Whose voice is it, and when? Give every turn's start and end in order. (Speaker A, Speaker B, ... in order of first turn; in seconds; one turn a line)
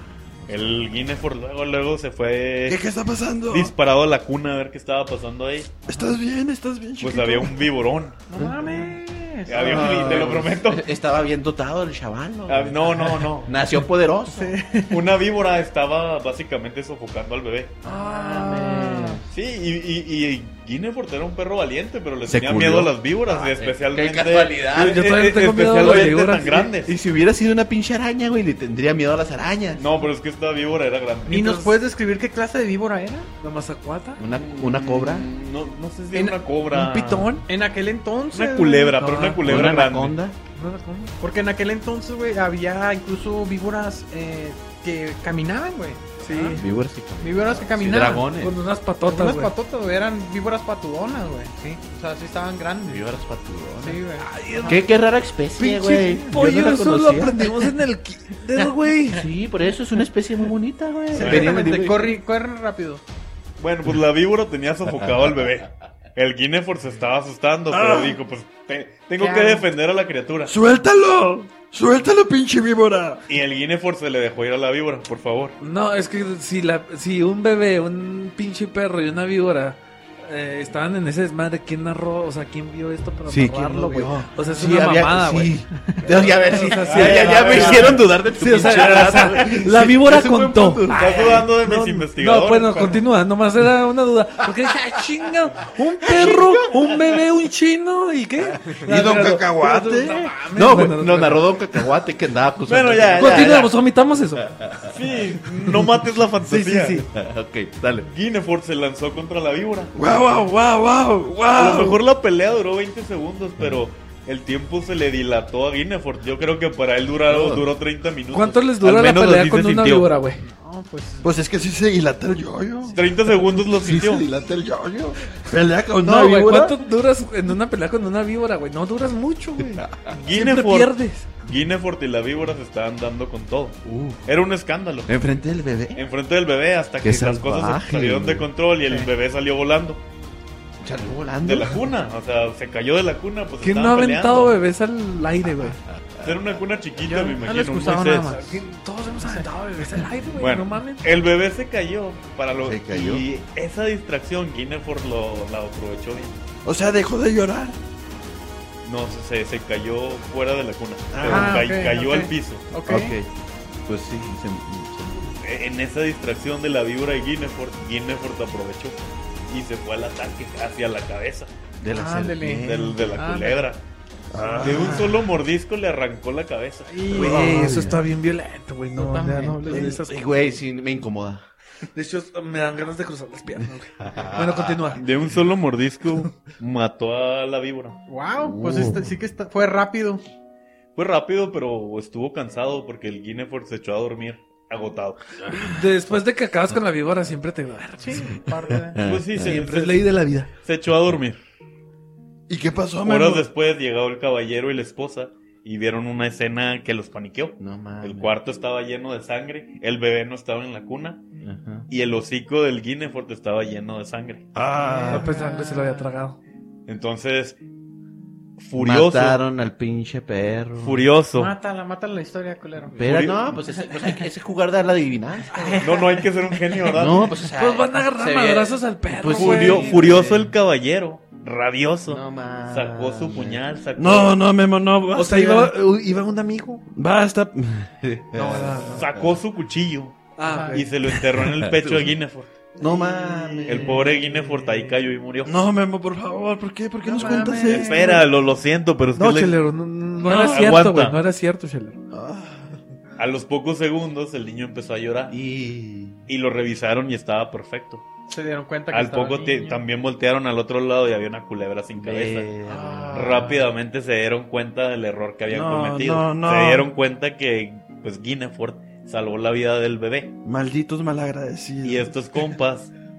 Speaker A: 0.5-2.8
Speaker B: 2.7-3.7
Speaker A: 3.5-5.7
Speaker B: 5.9-7.6
Speaker A: 7.0-8.2
Speaker C: 8.3-9.9
Speaker A: 9.5-10.9
Speaker D: 9.5-14.6
Speaker B: 9.7-10.3
Speaker A: 12.5-13.5
Speaker C: 14.3-15.0
Speaker A: 14.9-17.8
Speaker D: 17.8-19.2
Speaker E: 18.2-18.7
Speaker C: 18.3-19.2
Speaker A: 19.3-26.9
Speaker D: 22.3-25.1
Speaker E: 24.7-26.6
Speaker D: 25.7-29.9
Speaker A: 29.8-31.6
Speaker C: 31.3-33.3
Speaker E: 31.3-31.8
Speaker E: 33.4-34.2
Speaker D: 34.2-35.3
Speaker A: 34.3-37.4
Speaker C: 36.1-36.4
Speaker E: 36.7-37.5
Speaker C: 37.5-39.0
Speaker A: 38.3-40.2
Speaker E: 38.9-39.8
Speaker D: 39.4-40.4
Speaker E: 40.5-41.1
Speaker C: 41.2-46.6
Speaker E: 46.2-46.6
Speaker D: 46.5-48.6
Speaker C: 47.2-48.4
Speaker E: 48.3-49.5
Speaker C: 49.0-53.1
Speaker D: 52.9-54.0
Speaker C: 53.8-54.9
Speaker E: 54.2-54.8
Speaker D: 54.6-57.6
Speaker E: 55.6-59.3
Speaker D: 59.1-62.2
Speaker C: 61.1-63.0
Speaker A: 61.2-61.6
Speaker A: 63.6-70.5
Speaker B: 67.7-68.2
Speaker C: 69.2-69.7
Speaker B: 70.5-73.2
Speaker A: 73.3-75.6
Speaker E: 75.6-85.6
Speaker B: 83.3-83.7
Speaker D: 83.3-91.5
Speaker C: 85.7-86.1
Speaker E: 86.5-101.5
Speaker A: 86.8-89.6
Speaker A: 90.9-93.0
Speaker D: 96.0-97.1
Speaker B: 98.8-100.9
Speaker D: 100.5-103.8
Speaker A: 102.7-103.6
Speaker E: 103.1-104.5
Speaker D: 104.4-105.0
Speaker A: 104.9-107.1
Speaker D: 106.6-108.1
Speaker A: 108.1-109.9
Speaker B: 110.0-112.0
Speaker A: 111.5-120.1
Speaker D: 117.3-117.6
Speaker E: 118.3-120.4
Speaker C: 120.4-121.3
Speaker B: 121.2-126.8
Speaker A: 122.9-124.3
Speaker E: 126.0-131.3
Speaker D: 129.8-130.1
Speaker A: 130.1-135.1
Speaker D: 133.8-134.2
Speaker D: 135.1-136.0
Speaker A: 135.9-140.0
Speaker D: 137.0-138.5
Speaker D: 140.8-141.8
Speaker A: 141.4-144.5
Speaker E: 143.6-145.8
Speaker D: 145.9-146.3
Speaker A: 146.2-148.4
Speaker C: 147.1-148.6
Speaker E: 148.4-151.1
Speaker C: 149.2-149.5
Speaker A: 150.4-156.4
Speaker D: 152.7-153.2
Speaker B: 156.7-157.8
Speaker A: 158.8-162.7
Speaker B: 161.1-161.6
Speaker C: 161.3-163.2
Speaker D: 162.9-163.3
Speaker D: 163.9-165.3
Speaker A: 165.4-171.5
Speaker D: 171.8-173.0
Speaker C: 171.9-173.6
Speaker A: 172.6-173.8
Speaker B: 174.3-175.1
Speaker C: 174.5-175.0
Speaker A: 174.6-177.0
Speaker C: 176.8-177.5
Speaker E: 177.1-180.2
Speaker B: 177.2-178.0
Speaker D: 177.3-177.8
Speaker C: 178.9-180.0
Speaker D: 179.7-181.4
Speaker E: 181.9-185.0
Speaker D: 184.0-184.9
Speaker A: 184.9-188.0
Speaker C: 188.1-190.2
Speaker D: 188.4-189.0
Speaker A: 190.9-195.4
Speaker B: 195.5-195.7
Speaker E: 195.6-198.5
Speaker C: 198.0-199.0
Speaker D: 198.9-199.6
Speaker A: 199.0-201.4
Speaker E: 199.4-200.5
Speaker B: 202.5-203.5
Speaker A: 203.0-211.2
Speaker D: 207.6-208.3
Speaker D: 211.4-211.9
Speaker A: 211.9-214.5
Speaker B: 214.6-215.3
Speaker C: 214.8-216.1
Speaker E: 215.1-216.4
Speaker A: 216.9-217.6
Speaker A: 218.6-219.4
Speaker D: 218.8-221.1
Speaker A: 220.8-221.5
Speaker C: 221.3-223.0
Speaker D: 222.9-226.0
Speaker A: 223.0-223.5
Speaker C: 225.5-226.2
Speaker A: 225.8-227.3
Speaker D: 226.8-230.5
Speaker E: 227.5-229.9
Speaker C: 229.3-230.3
Speaker A: 229.3-234.3
Speaker D: 232.1-233.6
Speaker B: 234.0-235.7
Speaker E: 235.1-236.8
Speaker B: 236.9-237.9
Speaker D: 238.0-239.2
Speaker E: 238.3-239.1
Speaker A: 239.0-242.5
Speaker E: 240.4-240.9
Speaker C: 240.4-240.9
Speaker D: 241.3-242.1
Speaker B: 242.8-243.9
Speaker D: 242.8-244.1
Speaker A: 243.6-245.6
Speaker C: 243.9-244.9
Speaker B: 245.4-248.0
Speaker C: 247.1-248.3
Speaker A: 247.6-249.6
Speaker E: 249.2-252.0
Speaker A: 250.2-251.2
Speaker B: 250.2-250.7
Speaker B: 252.1-252.8
Speaker A: 253.2-255.3
Speaker D: 255.3-256.2
Speaker A: 256.3-258.1
Speaker C: 258.3-259.8
Speaker A: 258.9-262.5
Speaker D: 262.0-263.6
Speaker B: 262.7-263.2
Speaker A: 263.1-270.4
Speaker B: 265.5-266.9
Speaker B: 270.4-272.1
Speaker A: 271.8-272.9